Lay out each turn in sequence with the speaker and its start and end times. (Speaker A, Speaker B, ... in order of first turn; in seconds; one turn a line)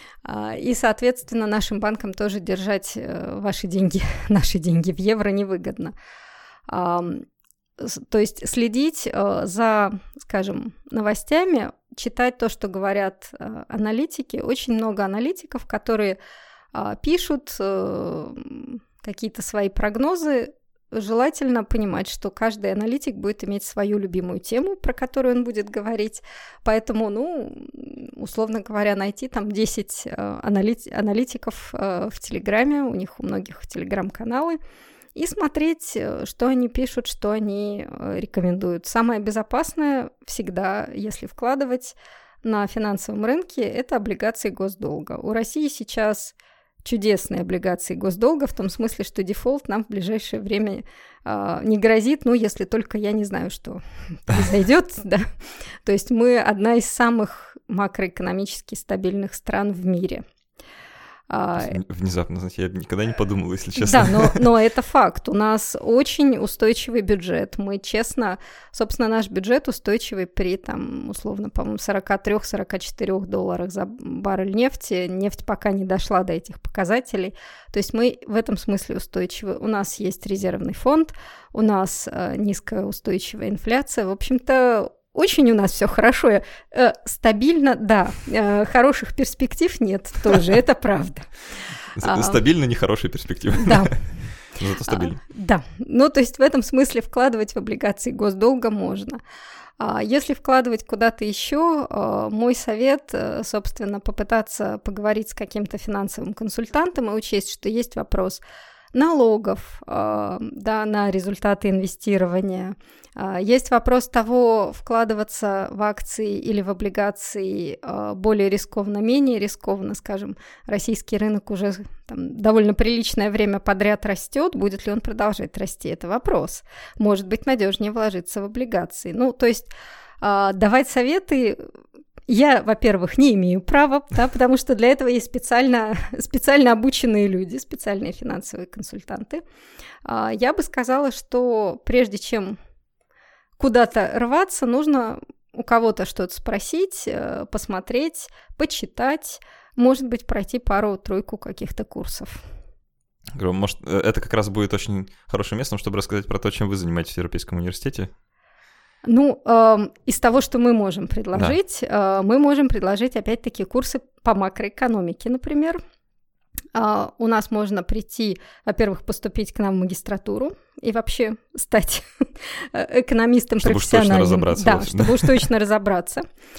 Speaker A: 0.2-5.9
Speaker A: 6.7-7.2
Speaker A: 7.8-16.2
Speaker A: 16.7-34.6
Speaker A: 35.1-55.3
Speaker A: 55.8-60.2
Speaker A: 61.3-61.8
Speaker B: 61.6-64.4
Speaker A: 63.8-91.3
Speaker B: 91.9-94.0
Speaker A: 92.0-92.4
Speaker A: 93.6-94.0
Speaker B: 94.5-95.2
Speaker A: 94.9-99.2
Speaker A: 99.8-108.4
Speaker A: 108.9-129.7
Speaker A: 130.2-131.6
Speaker A: 132.3-139.4
Speaker A: 140.0-142.6
Speaker A: 143.6-152.4
Speaker B: 153.3-158.1
Speaker A: 159.0-165.8
Speaker A: 166.7-176.2
Speaker B: 173.6-175.4